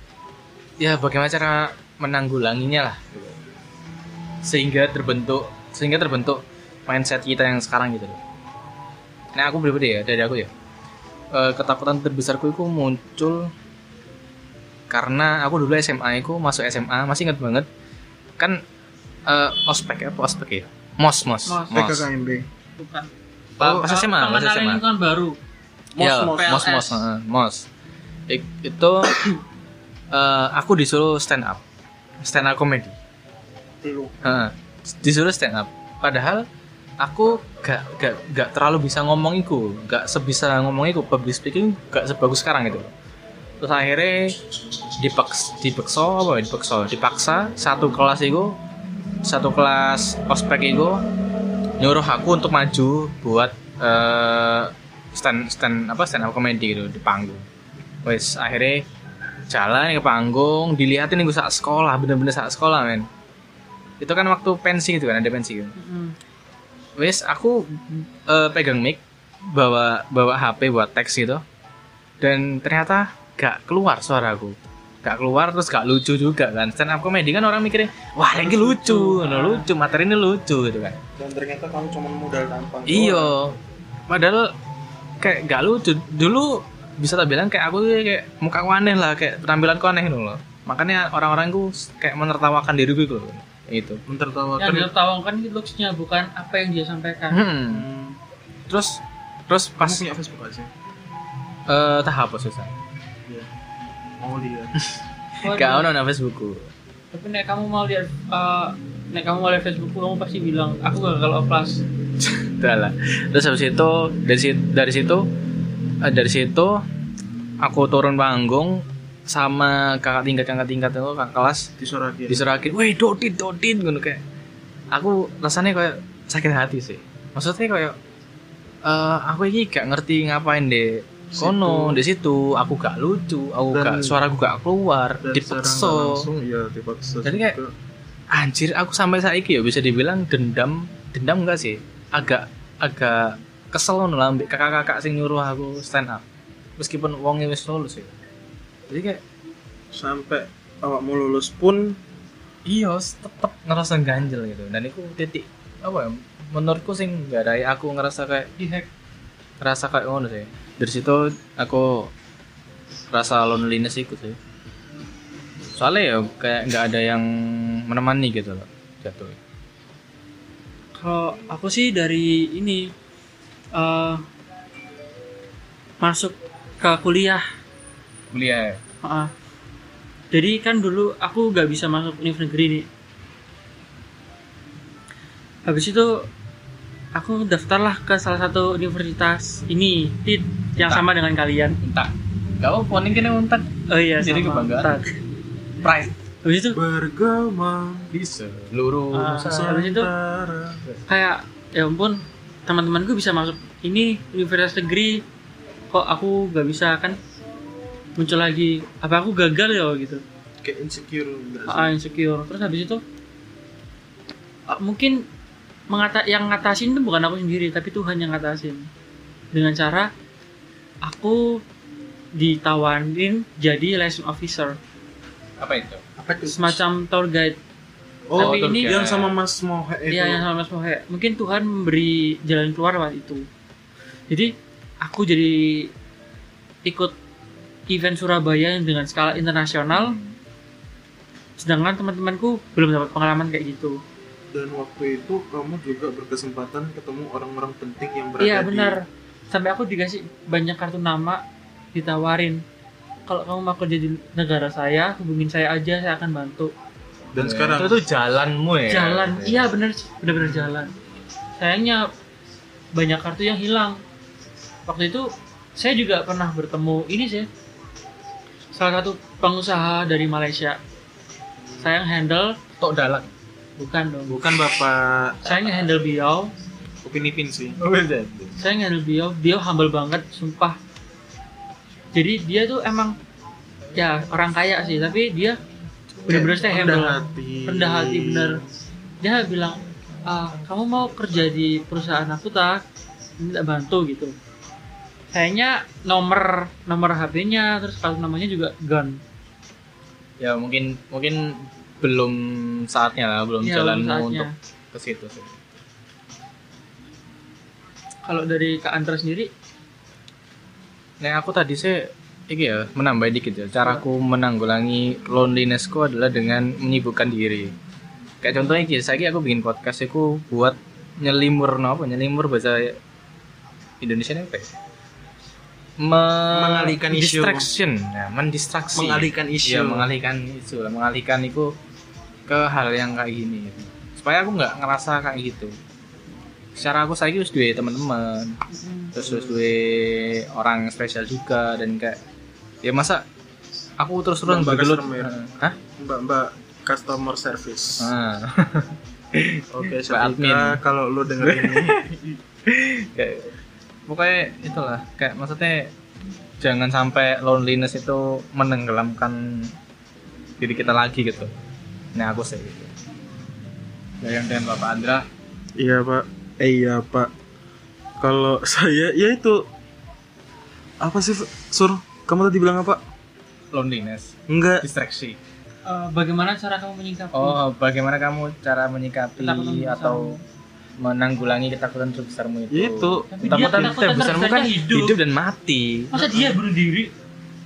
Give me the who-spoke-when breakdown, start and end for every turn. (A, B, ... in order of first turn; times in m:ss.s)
0:00.8-0:03.4 A
0:04.4-0:08.2 A
0:09.3-0:10.5 A
0:11.3-0:13.5 A
0:14.9-0:17.7 A
0:19.3-0:22.1 A
0:21.5-0:21.8 B
0:21.7-0:22.5 C
0:22.8-0:23.1 B
0:23.6-0:24.8 A
0:23.6-0:23.9 C
0:23.6-0:25.4 B
0:26.0-0:26.7 C
0:26.0-0:27.6 A
0:26.3-0:27.0 B
0:28.3-0:29.2 A
0:30.1-0:31.6 A
0:32.2-0:32.9 A
0:33.8-0:34.2 C
0:34.2-0:36.4 A
0:37.0-0:42.9 A
0:43.6-0:44.3 A
0:45.0-0:48.6 A
0:49.2-0:51.0 A
0:51.8-0:57.4 A
0:58.0-0:58.8 A
0:59.5-1:03.0 A
1:04.0-1:05.7 A
1:05.8-1:06.1 B
1:07.0-1:09.0 A
1:09.5-1:11.4 A
1:12.2-1:21.0 A
1:18.3-1:18.9 C
1:18.7-1:19.7 B
1:21.2-1:23.3 C
1:22.9-1:23.5 A
1:24.1-1:24.5 A
1:25.2-1:34.0 A
1:34.1-1:34.9 C
1:34.6-1:37.4 B
1:37.3-1:37.9 A
1:37.7-1:38.2 C
1:38.7-1:40.0 A
1:39.8-1:40.7 C
1:41.7-1:42.7 A
1:44.2-1:44.7 C
1:44.8-1:46.6 A
1:45.4-1:45.9 B
1:47.1-1:51.8 B
1:52.3-1:55.3 A
1:56.0-1:56.8 A
1:57.6-2:01.7 A
2:01.8-2:02.4 C
2:02.3-2:04.2 A
2:04.9-2:08.0 A
2:08.8-2:16.3 A
2:11.3-2:12.0 C
2:13.7-2:14.2 C
2:15.2-2:17.7 C
2:17.2-2:17.6 A
2:18.3-2:26.2 A
2:26.8-2:28.1 A
2:28.9-2:29.2 A
2:29.9-2:32.0 C
2:32.6-2:38.5 A
2:38.6-2:38.9 B
2:39.6-2:42.1 A
2:43.1-2:44.4 A
2:45.7-2:49.4 A
2:51.0-2:52.9 B
2:53.7-2:54.2 B
2:56.0-2:57.4 B
2:58.3-2:58.8 A
2:59.0-2:59.3 B
3:00.3-3:02.8 B
3:05.6-3:06.2 B
3:07.1-3:11.8 B
3:11.8-3:14.9 A
3:13.9-3:15.1 B
3:15.8-3:16.2 A
3:16.4-3:16.8 B
3:16.7-3:18.1 C
3:18.1-3:19.7 A
3:19.1-3:20.1 B
3:19.4-3:20.8 C
3:21.1-3:25.2 B
3:25.9-3:27.2 B
3:28.2-3:30.2 B
3:30.6-3:31.9 C
3:31.7-3:33.0 B
3:34.7-3:35.2 B
3:35.9-3:38.9 B
3:39.5-3:40.1 B
3:41.0-3:41.6 B
3:42.4-3:44.8 B
3:45.6-3:46.0 A
3:46.2-3:46.8 C
3:46.4-3:47.6 B
3:48.3-3:50.4 C
3:48.4-3:49.0 B
3:48.4-3:49.3 A
3:50.1-3:53.4 B
3:54.3-3:55.9 B
3:56.8-3:57.1 B
3:57.9-4:00.2 B
3:59.9-4:00.4 A
4:01.6-4:04.0 B
4:04.5-4:09.0 C
4:08.4-4:11.4 B
4:11.9-4:12.6 B
4:13.3-4:16.7 B
4:17.3-4:18.0 C
4:17.4-4:19.7 A
4:18.9-4:20.9 B
4:21.6-4:22.0 B
4:22.9-4:24.0 B
4:24.9-4:27.5 B
4:28.7-4:30.8 B
4:31.8-4:32.5 B
4:32.8-4:33.3 A
4:33.8-4:34.5 B
4:34.3-4:35.6 C
4:35.4-4:36.5 B
4:37.0-4:37.8 C
4:37.8-4:38.6 A
4:38.6-4:40.8 B
4:42.1-4:43.1 B
4:43.9-4:45.6 B
4:46.1-4:46.5 A
4:46.3-4:48.6 B
4:46.3-4:48.5 C
4:49.2-4:52.8 B
4:53.4-4:54.3 B
4:55.3-4:59.2 B
5:00.4-5:05.5 A
5:03.6-5:04.5 B
5:08.2-5:09.5 B
5:11.2-5:17.7 A
5:18.4-5:23.0 A
5:24.0-5:24.7 A
5:26.0-5:31.7 A
5:26.5-5:27.6 C
5:28.9-5:30.1 C
5:32.5-5:35.8 A
5:36.8-5:38.6 A
5:39.1-5:39.6 C
5:39.1-5:42.2 A
5:42.8-5:43.2 A
5:44.0-5:45.8 A
5:44.4-5:45.3 C
5:45.9-5:48.1 C
5:48.0-5:50.8 A
5:49.7-5:52.0 C
5:51.4-5:53.5 A
5:54.1-5:55.9 A
5:56.6-5:59.7 A
6:00.6-6:01.5 A
6:02.1-6:02.9 A
6:04.2-6:05.3 A
6:05.8-6:07.3 C
6:08.2-6:09.6 C
6:11.0-6:13.0 C
6:13.7-6:15.4 A
6:14.5-6:14.8 C
6:15.9-6:17.6 B
6:17.3-6:20.4 A
6:19.4-6:20.4 B
6:21.0-6:26.3 A
6:22.7-6:24.0 C
6:23.3-6:25.2 B
6:26.1-6:27.1 B